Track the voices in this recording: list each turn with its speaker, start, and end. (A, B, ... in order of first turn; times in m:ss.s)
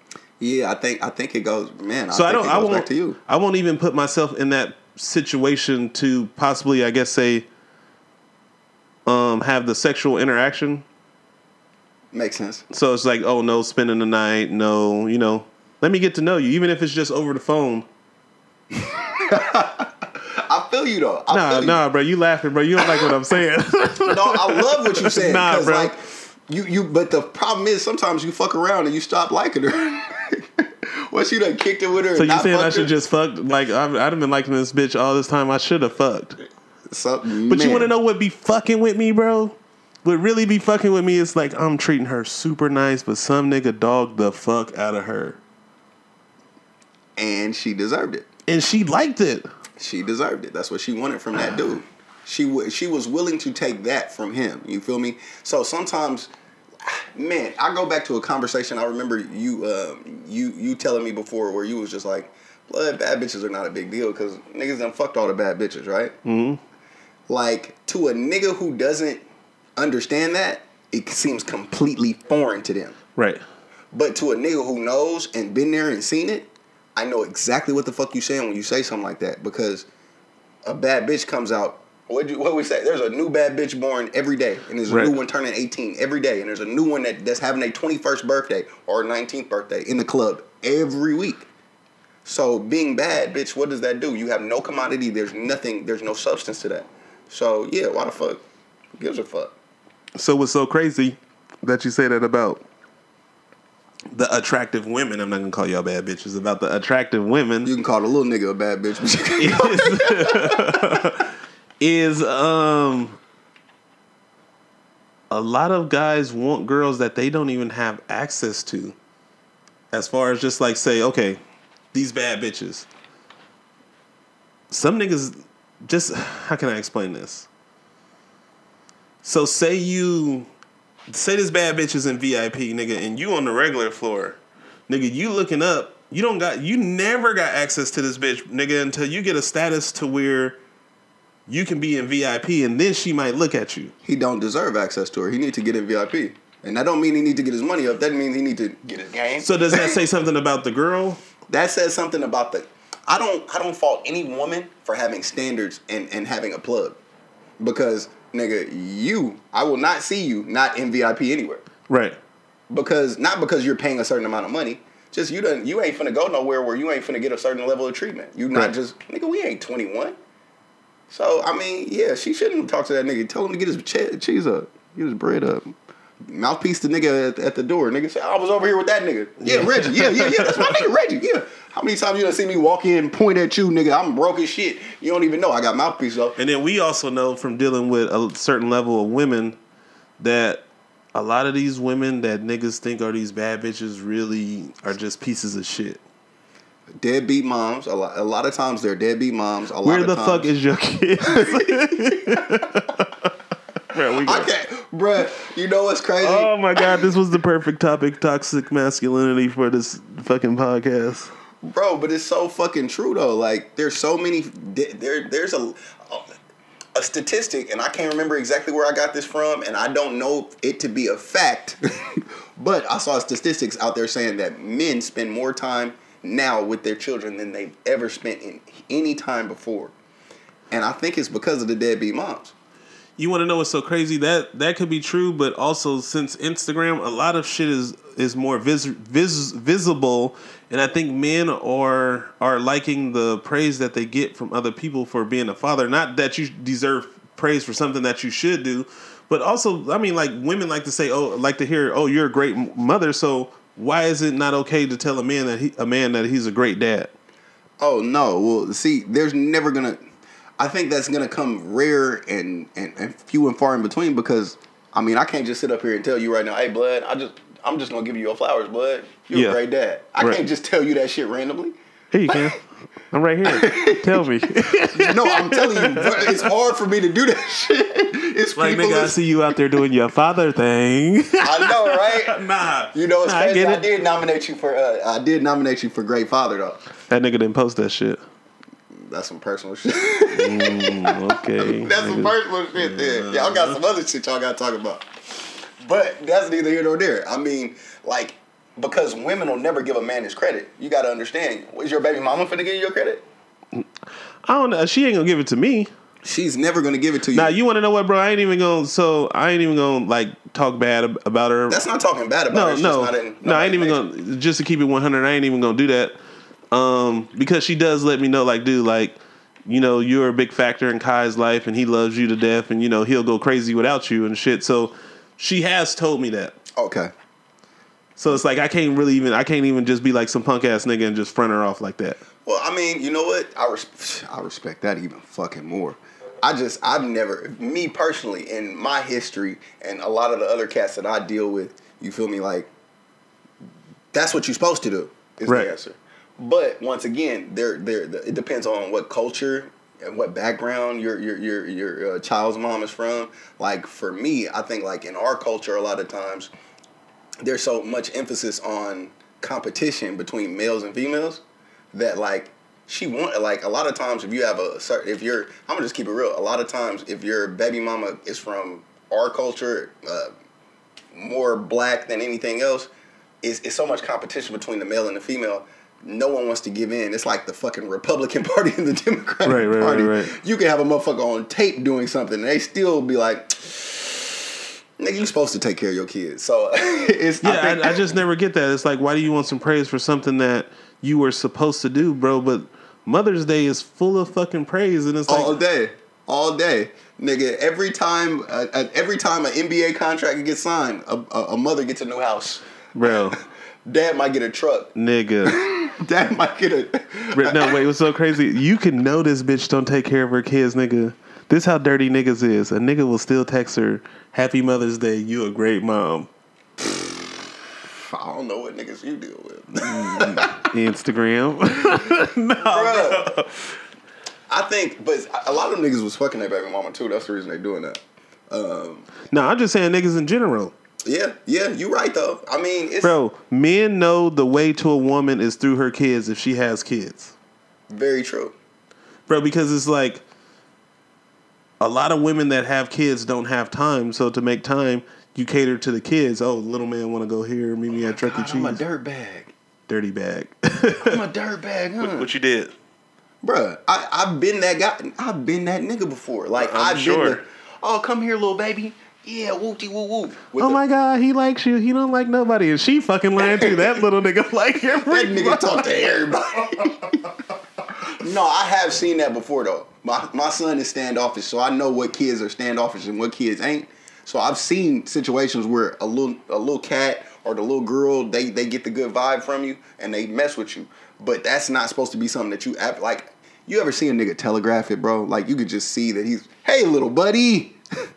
0:00.4-0:03.2 A
0:02.1-0:07.4 B
0:09.0-0:10.8 B
0:12.1-0:12.6 A
0:12.7-0:17.8 B
0:18.7-0:21.8 A
0:21.3-0:25.9 B
0:22.8-0:23.1 A
0:24.0-0:32.9 A
0:32.2-0:36.4 B
0:36.9-0:37.9 A
0:37.5-0:45.4 B
0:47.2-0:48.3 A
0:48.5-0:49.5 B
0:49.8-1:06.1 A
1:06.2-1:06.6 B
1:07.3-1:09.2 A
1:09.8-1:13.0 A
1:13.2-1:13.4 B
1:13.9-1:19.9 A
1:20.6-1:31.5 A
1:24.9-1:25.2 B
1:32.2-1:38.4 A
1:39.0-1:39.5 A
1:40.1-1:42.6 B
1:44.1-1:47.7 B
1:47.6-1:51.0 A
1:49.4-1:53.2 B
1:55.3-1:59.0 B
1:59.9-2:01.4 B
2:01.9-2:02.9 B
2:04.7-2:07.5 B
2:09.2-2:10.5 B
2:11.1-2:20.6 B
2:21.5-2:23.9 B
2:24.0-2:29.9 A
2:29.4-2:31.2 B
2:31.5-2:37.0 A
2:37.6-2:41.6 A
2:41.9-2:42.2 B
2:42.7-2:50.2 A
2:51.1-3:06.4 A
2:59.4-3:00.8 B
3:06.4-3:09.6 B
3:10.2-3:16.0 B
3:16.9-3:20.5 A
3:19.8-3:23.3 B
3:21.3-3:22.6 A
3:23.9-3:24.5 B
3:24.2-3:27.0 A
3:26.2-3:31.3 B
3:31.6-3:36.3 A
3:36.9-3:49.9 A
3:50.7-3:52.5 A
3:53.2-4:17.1 B
4:17.8-4:20.0 A
4:20.6-4:31.7 A
4:29.3-4:29.6 B
4:32.1-4:36.4 B
4:33.4-4:34.2 A
4:34.9-4:39.2 A
4:38.6-4:43.8 B
4:41.4-4:42.4 A
4:42.9-4:46.8 A
4:47.1-4:48.2 B
4:48.9-5:03.2 A
4:50.3-4:53.8 B
5:04.4-5:05.9 B
5:06.2-5:07.6 A
5:07.3-5:11.8 B
5:11.7-5:14.0 A
5:12.5-5:16.2 B
5:16.7-5:26.5 B
5:26.8-5:27.1 A
5:28.2-5:32.2 B
5:32.4-5:42.7 A
5:44.1-5:56.5 A
5:45.5-5:45.7 B
5:57.4-6:01.4 A
6:01.9-6:10.3 A
6:11.1-6:12.9 A
6:13.4-6:28.1 A
6:19.4-6:20.3 B
6:27.4-6:35.6 B
6:35.3-6:44.9 A
6:42.9-6:43.4 B
6:44.9-6:45.6 B
6:45.4-6:47.8 A
6:47.3-6:56.3 B
6:58.0-7:00.7 A
6:59.8-7:03.7 B
7:02.6-7:03.3 A
7:04.5-7:09.1 A
7:09.3-7:10.7 B
7:11.0-7:13.2 A
7:13.0-7:17.3 B
7:17.9-7:18.5 A
7:19.3-7:20.2 B
7:21.8-7:28.8 B
7:27.9-7:29.5 A
7:29.9-7:31.2 B
7:31.0-7:32.3 A
7:32.0-7:32.7 B
7:33.4-7:40.8 A
7:36.6-7:37.4 B
7:40.6-7:45.8 B
7:43.4-7:44.0 A
7:45.0-7:47.2 A
7:48.2-8:07.8 A